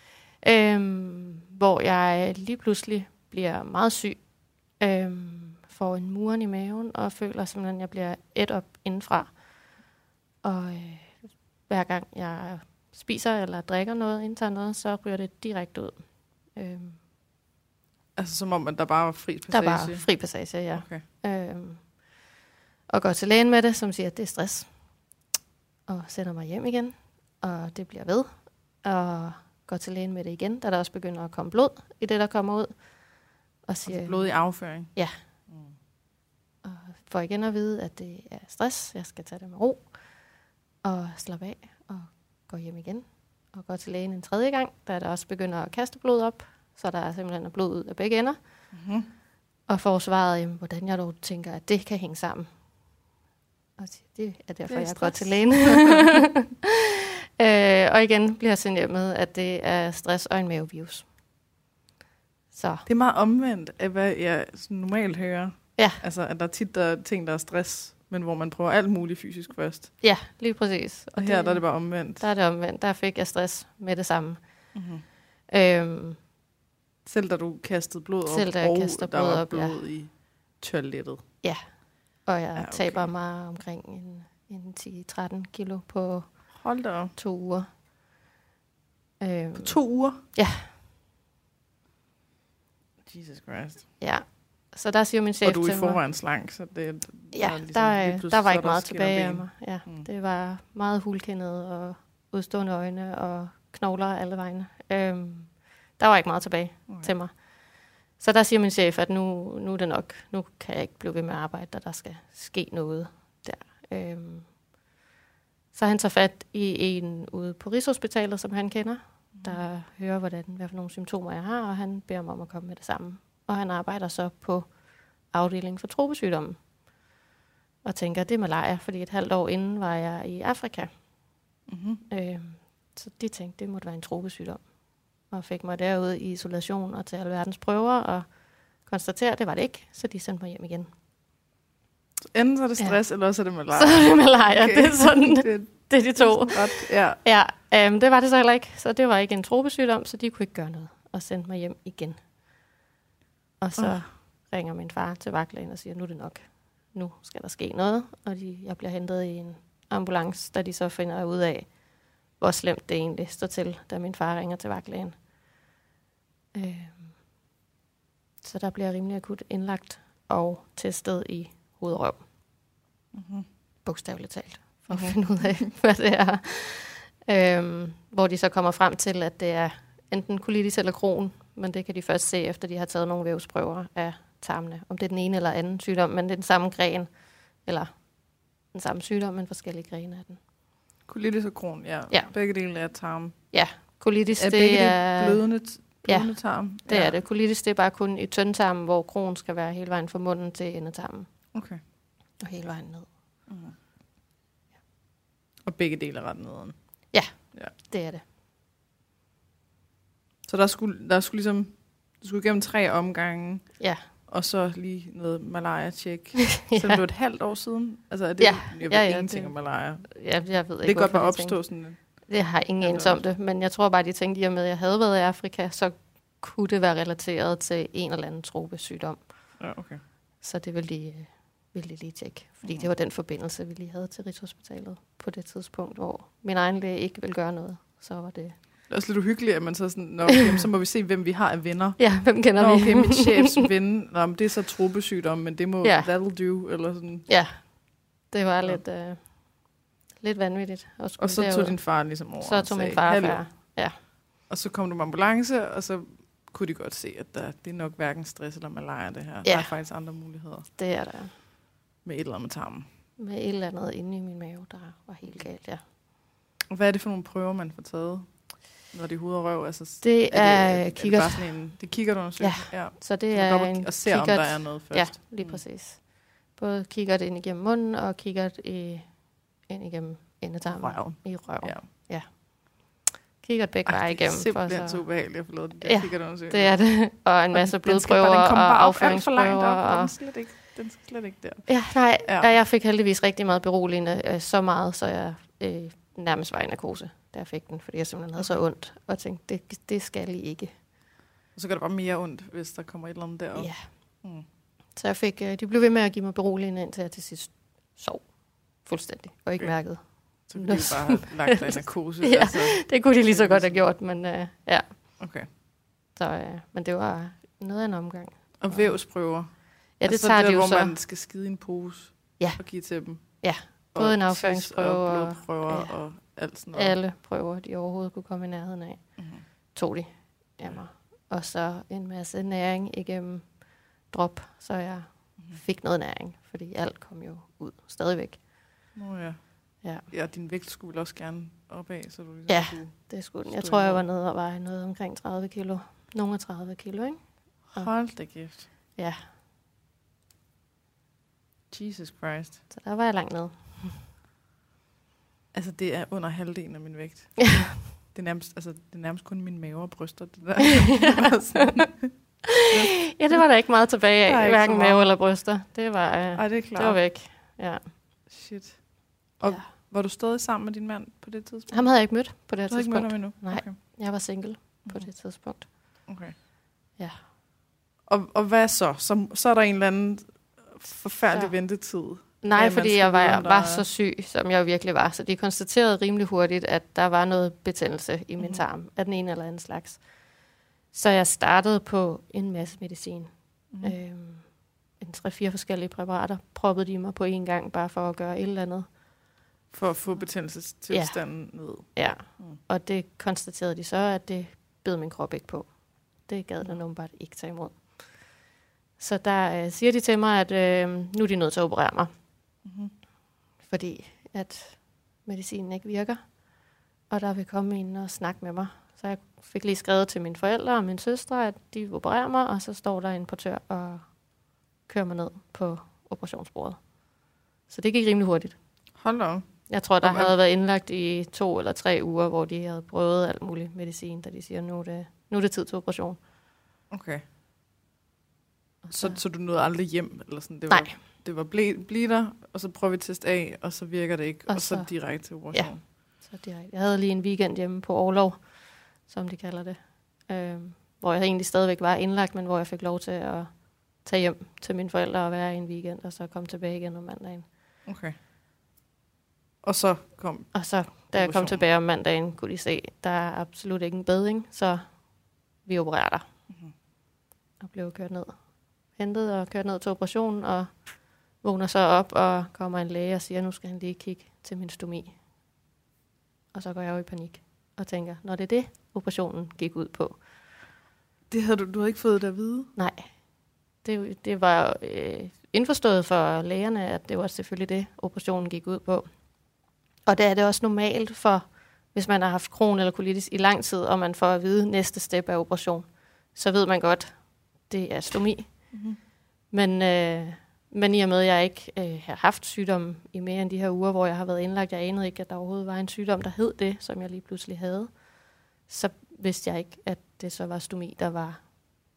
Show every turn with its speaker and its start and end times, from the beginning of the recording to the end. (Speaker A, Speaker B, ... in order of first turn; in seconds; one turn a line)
Speaker A: 0.4-4.2
Speaker A: 4.8-9.3
Speaker A: 10.4-16.0
Speaker A: 16.5-17.0
Speaker B: 18.1-20.1
Speaker A: 19.5-21.8
Speaker B: 20.7-21.0
Speaker A: 22.9-24.7
Speaker A: 25.9-28.3
Speaker A: 28.8-32.7
Speaker A: 33.6-34.3
Speaker B: 33.9-34.9
Speaker A: 36.6-39.9
Speaker A: 40.8-48.4
Speaker B: 48.7-49.1
Speaker A: 49.7-52.5
Speaker A: 53.8-61.0
Speaker B: 54.7-56.2
Speaker A: 62.5-62.9
Speaker B: 62.9-69.9
Speaker A: 65.8-66.0
Speaker A: 70.0-74.4
Speaker B: 71.2-72.2
Speaker B: 74.7-75.0
Speaker A: 75.5-76.2
Speaker B: 77.0-81.2
Speaker A: 78.3-79.8
Speaker A: 82.2-86.3
Speaker B: 82.5-83.1
Speaker B: 86.5-87.1
Speaker A: 87.2-87.7
Speaker A: 89.2-89.8
Speaker B: 89.6-90.2
Speaker A: 90.3-90.7
Speaker B: 93.0-93.9
Speaker A: 94.0-96.0
Speaker B: 95.4-100.1
Speaker A: 97.3-107.3
Speaker A: 108.2-114.5
Speaker A: 115.7-124.7
Speaker A: 125.3-126.6
Speaker A: 127.8-130.9
Speaker B: 131.7-132.0
Speaker A: 132.1-134.6
Speaker A: 135.3-138.2
Speaker A: 138.8-140.9
Speaker B: 142.2-147.2
Speaker A: 143.7-152.2
Speaker A: 153.6-161.7
Speaker B: 153.8-154.0
Speaker A: 162.4-165.2
Speaker A: 166.5-167.1
Speaker A: 168.4-172.2
Speaker B: 173.1-173.4
Speaker A: 173.8-187.1
Speaker B: 174.9-175.1
Speaker A: 187.6-187.9
Speaker A: 188.7-190.4
Speaker B: 191.1-193.3
Speaker A: 193.5-195.4
Speaker B: 194.3-197.2
Speaker A: 196.0-196.3
Speaker A: 196.8-201.3
Speaker B: 201.5-201.8
Speaker A: 202.4-203.1
Speaker B: 203.5-203.7
Speaker B: 205.6-206.7
Speaker A: 207.1-208.2
Speaker B: 210.4-213.7
Speaker B: 214.3-220.1
Speaker A: 216.5-217.0
Speaker A: 218.4-221.6
Speaker B: 220.8-222.0
Speaker A: 222.3-229.2
Speaker B: 222.8-223.2
Speaker B: 229.6-230.0
Speaker A: 230.4-238.6
Speaker B: 238.9-247.3
Speaker A: 240.3-240.6
Speaker A: 242.0-243.7
Speaker A: 245.8-246.1
Speaker A: 247.3-249.4
Speaker A: 250.2-253.9
Speaker B: 251.2-253.4
Speaker B: 254.5-260.7
Speaker A: 259.4-259.7
Speaker A: 260.8-261.3
Speaker B: 262.0-262.9
Speaker A: 263.2-265.8
Speaker B: 266.7-275.6
Speaker A: 270.0-271.6
Speaker A: 272.4-285.1
Speaker B: 280.7-281.8
Speaker B: 283.9-286.8
Speaker A: 285.8-290.1
Speaker B: 287.5-292.5
Speaker A: 291.7-300.7
Speaker B: 301.5-303.7
Speaker A: 303.5-303.8
Speaker A: 304.9-308.2
Speaker A: 308.8-314.9
Speaker B: 310.4-313.8
Speaker B: 315.2-315.5
Speaker A: 316.1-318.9
Speaker B: 318.6-323.4
Speaker A: 320.0-320.9
Speaker A: 322.4-322.6
Speaker A: 323.2-325.9
Speaker B: 323.9-327.0
Speaker A: 326.7-329.0
Speaker B: 329.2-329.4
Speaker A: 329.7-338.4
Speaker B: 338.9-339.4
Speaker B: 340.1-344.0
Speaker A: 342.5-347.9
Speaker B: 347.7-348.7
Speaker A: 348.9-349.2
Speaker B: 351.7-352.6
Speaker A: 352.7-354.0
Speaker B: 355.5-362.1
Speaker A: 357.4-357.8
Speaker A: 360.6-361.9
Speaker A: 362.5-367.9
Speaker B: 362.7-363.4
Speaker B: 364.2-365.1
Speaker B: 366.4-367.0
Speaker B: 368.3-368.8
Speaker B: 369.4-371.9
Speaker A: 371.7-375.7
Speaker B: 372.7-373.8
Speaker B: 376.1-376.3
Speaker B: 378.1-383.8
Speaker A: 382.4-390.0
Speaker A: 390.9-393.3
Speaker A: 393.8-394.4
Speaker A: 395.0-398.9
Speaker B: 399.7-402.6
Speaker A: 400.9-401.2
Speaker A: 401.9-405.7
Speaker A: 406.2-407.9
Speaker A: 409.0-412.1
Speaker B: 412.6-412.9
Speaker A: 413.6-416.2
Speaker A: 417.1-424.1
Speaker A: 424.9-426.8
Speaker A: 427.7-428.6
Speaker B: 428.9-429.5
Speaker A: 429.7-436.2
Speaker B: 430.0-430.3
Speaker B: 436.9-437.2
Speaker A: 438.9-439.1
Speaker B: 438.9-445.8
Speaker A: 440.7-440.9
Speaker A: 444.5-457.5
Speaker B: 457.9-458.1
Speaker B: 459.6-461.6
Speaker A: 460.5-465.0
Speaker A: 465.6-466.2
Speaker A: 467.6-468.4
Speaker A: 468.9-470.8
Speaker A: 471.4-475.2
Speaker A: 476.5-480.2
Speaker B: 481.3-482.7
Speaker A: 482.8-483.1
Speaker A: 483.8-489.1
Speaker A: 490.1-498.7
Speaker B: 498.7-499.0
Speaker A: 499.5-507.9
Speaker A: 508.6-511.8